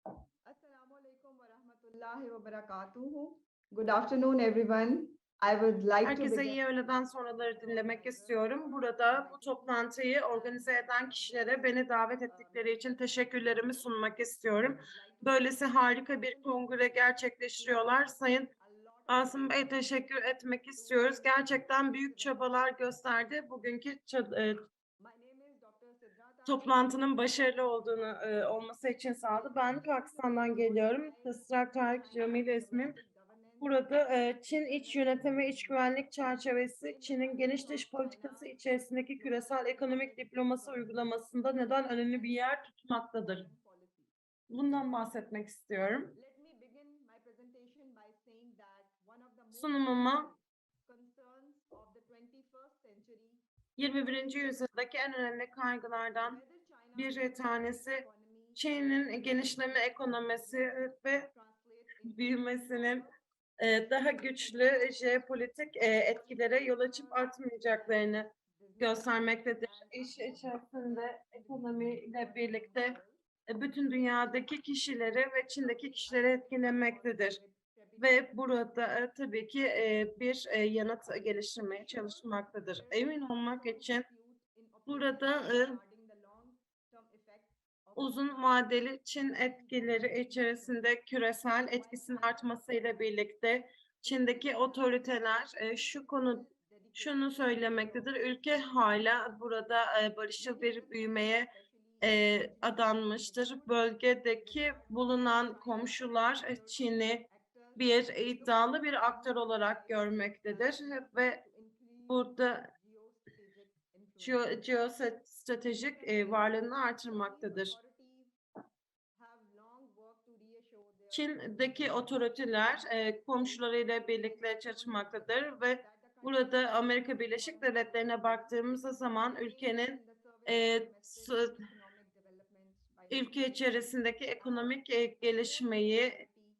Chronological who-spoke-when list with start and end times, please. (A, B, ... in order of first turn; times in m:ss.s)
0:00.5-0:06.6 A
0:06.0-0:18.5 B
0:19.1-0:24.6 B
0:25.0-0:26.6 A
0:26.4-0:33.0 B
0:30.3-0:31.2 A
0:32.0-0:33.6 A
0:33.6-0:43.4 B
0:37.2-0:38.4 A
0:43.5-0:44.0 A
0:44.5-0:46.1 B
0:46.2-0:49.5 A
0:49.5-0:50.3 B
0:50.8-0:53.4 A
0:53.8-0:56.4 B
0:56.4-0:56.8 A
0:57.0-1:01.3 B
1:02.0-1:03.0 B
1:03.6-1:13.0 B
1:09.8-1:10.3 A
1:12.2-1:13.1 A
1:13.5-1:17.4 B
1:18.0-1:24.1 B
1:24.1-1:24.9 A
1:24.9-1:25.8 B
1:25.5-1:27.4 A
1:28.0-1:51.4 B
1:45.5-1:45.8 A
1:51.4-1:52.0 A
1:52.1-1:52.7 B
1:52.9-1:53.6 A
1:54.2-1:57.8 B
1:57.8-1:58.2 A
1:59.2-2:01.0 A
2:01.1-2:11.5 B
2:10.0-2:11.2 A
2:11.9-2:13.1 A
2:13.1-2:16.2 B